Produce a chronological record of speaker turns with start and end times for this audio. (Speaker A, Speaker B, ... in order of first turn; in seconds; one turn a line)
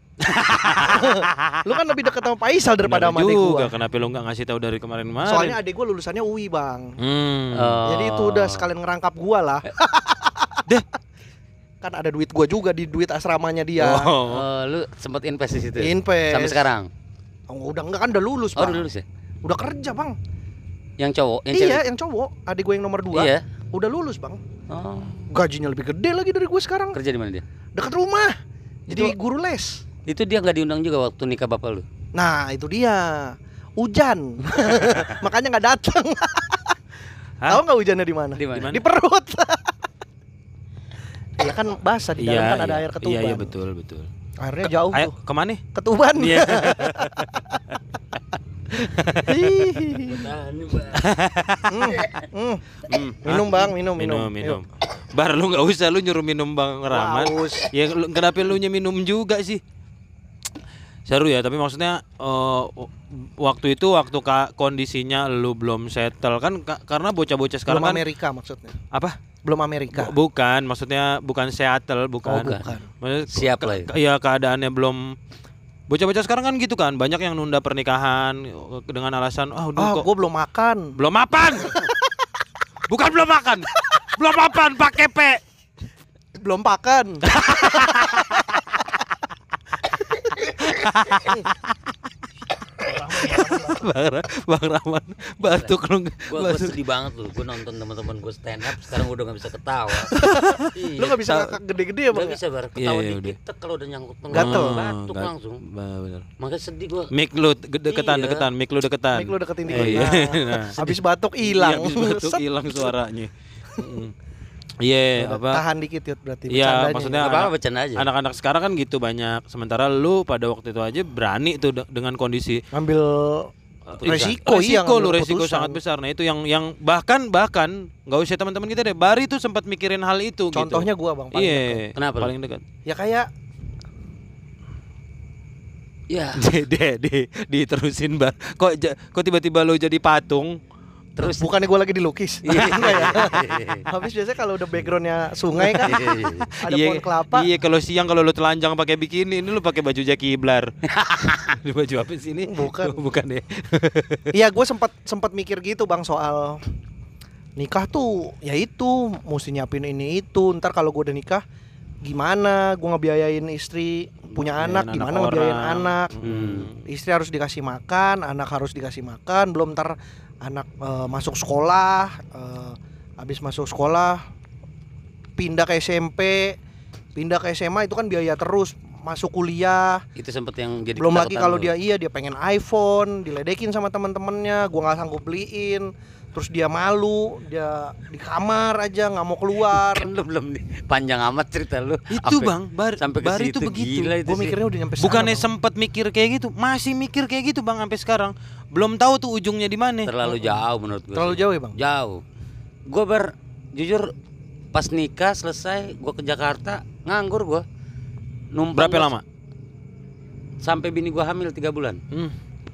Speaker A: 0.2-1.6
Speaker B: 0.8-3.7
Speaker A: 2.8-5.6
Speaker B: 5.2-7.0
Speaker A: 7.0-7.8
Speaker C: 7.5-8.7
Speaker B: 7.8-10.7
Speaker B: 11.8-14.1
Speaker A: 13.8-14.4
Speaker C: 14.2-16.9
Speaker B: 15.8-16.7
Speaker B: 17.5-18.9
Speaker C: 18.6-19.0
Speaker B: 19.4-20.1
Speaker C: 21.0-21.9
Speaker B: 21.5-24.4
Speaker C: 23.1-23.4
Speaker C: 24.7-25.3
Speaker B: 25.3-27.0
Speaker C: 26.9-27.4
Speaker B: 27.7-28.3
Speaker B: 28.9-29.8
Speaker C: 30.1-31.8
Speaker B: 32.1-36.8
Speaker B: 37.5-39.7
Speaker C: 38.4-38.8
Speaker A: 38.5-38.8
Speaker B: 41.4-43.5
Speaker A: 42.2-44.1
Speaker B: 44.4-45.1
Speaker A: 44.8-45.6
Speaker B: 45.7-47.4
Speaker A: 46.1-47.5
Speaker A: 48.8-49.9
Speaker B: 49.2-50.3
Speaker C: 50.0-51.0
Speaker A: 50.9-51.9
Speaker B: 51.7-52.6
Speaker A: 52.9-59.6
Speaker B: 53.2-54.6
Speaker B: 56.9-57.7
Speaker A: 61.1-68.0
Speaker B: 67.7-68.8
Speaker A: 68.9-69.2
Speaker B: 69.4-70.1
Speaker A: 69.9-75.2
Speaker B: 72.2-72.9
Speaker C: 72.3-72.7
Speaker C: 73.3-73.9
Speaker A: 75.9-80.1
Speaker B: 79.8-80.9
Speaker A: 81.0-81.9
Speaker B: 81.6-82.0
Speaker A: 82.9-85.4
Speaker B: 86.3-87.3
Speaker A: 87.3-88.6
Speaker A: 90.6-91.7
Speaker A: 92.9-96.8
Speaker B: 92.9-93.8
Speaker C: 95.4-95.7
Speaker C: 96.2-100.1
Speaker B: 100.1-102.4
Speaker A: 100.3-100.7
Speaker C: 100.7-101.5
Speaker C: 102.1-105.6
Speaker A: 102.8-103.3
Speaker B: 104.3-104.8
Speaker A: 104.3-106.3
Speaker C: 106.4-107.1
Speaker A: 107.1-114.1
Speaker C: 107.9-108.5
Speaker B: 109.1-112.9
Speaker C: 109.7-110.1
Speaker A: 114.8-115.6
Speaker B: 115.2-117.2
Speaker A: 116.5-122.6
Speaker C: 117.1-118.1
Speaker B: 122.7-123.5
Speaker A: 123.9-132.6
Speaker C: 124.0-124.3
Speaker B: 124.0-125.8
Speaker B: 130.5-131.8
Speaker C: 131.9-132.3
Speaker B: 132.8-133.3
Speaker C: 136.1-136.4
Speaker A: 136.4-140.6
Speaker C: 141.2-141.5
Speaker B: 141.2-146.1
Speaker C: 142.4-143.8
Speaker A: 145.6-150.7
Speaker C: 145.8-146.5
Speaker B: 146.6-147.5
Speaker C: 150.9-151.6
Speaker A: 151.6-154.3
Speaker B: 152.4-153.0
Speaker B: 154.3-156.6
Speaker B: 157.6-161.4
Speaker B: 162.0-166.1
Speaker A: 164.3-166.8
Speaker C: 166.2-166.7
Speaker B: 166.8-174.2
Speaker B: 175.4-176.6
Speaker B: 177.1-180.0
Speaker C: 180.2-181.7
Speaker B: 181.0-190.1
Speaker C: 189.7-194.6
Speaker A: 192.1-194.2
Speaker B: 194.2-195.5
Speaker A: 195.0-200.1
Speaker C: 200.0-202.2
Speaker B: 201.1-201.8
Speaker C: 202.9-204.1
Speaker C: 204.7-207.6
Speaker C: 208.5-209.1
Speaker A: 208.8-209.2
Speaker C: 210.6-212.0